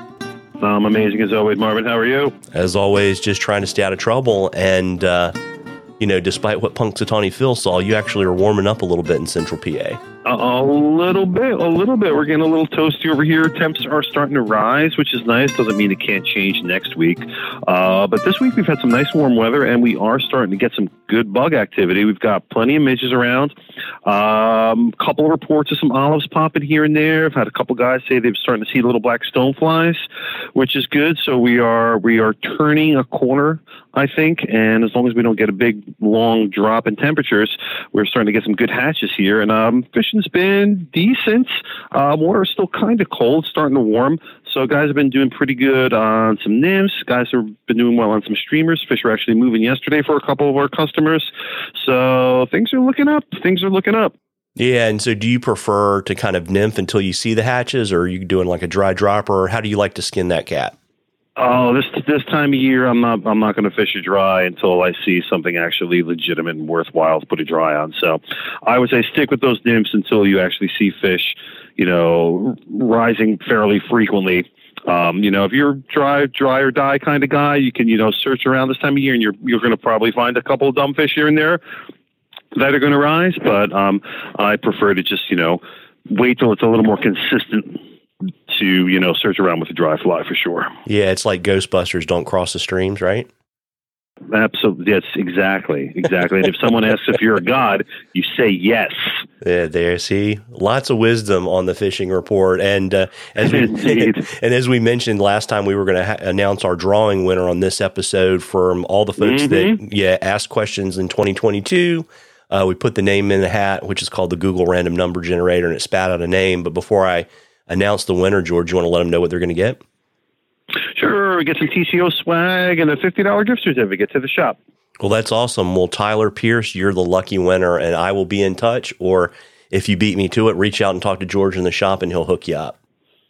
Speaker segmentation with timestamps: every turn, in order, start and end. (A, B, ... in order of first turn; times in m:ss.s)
0:00.6-0:02.4 A
0:02.5-0:05.3 B
0:06.0-0:10.0 B
0:10.2-0:23.5 A
0:24.0-0:30.0 A
0:30.5-0:54.1 A
0:54.6-1:00.7 B
1:01.4-1:21.6 A
1:22.5-1:27.8 A
1:28.5-1:30.7 A
1:30.8-1:33.3 B
1:34.3-1:39.2 A
1:39.4-1:59.8 B
1:43.4-1:44.2 A
1:49.2-1:49.8 A
2:00.9-2:04.6 A
2:05.0-2:12.8 B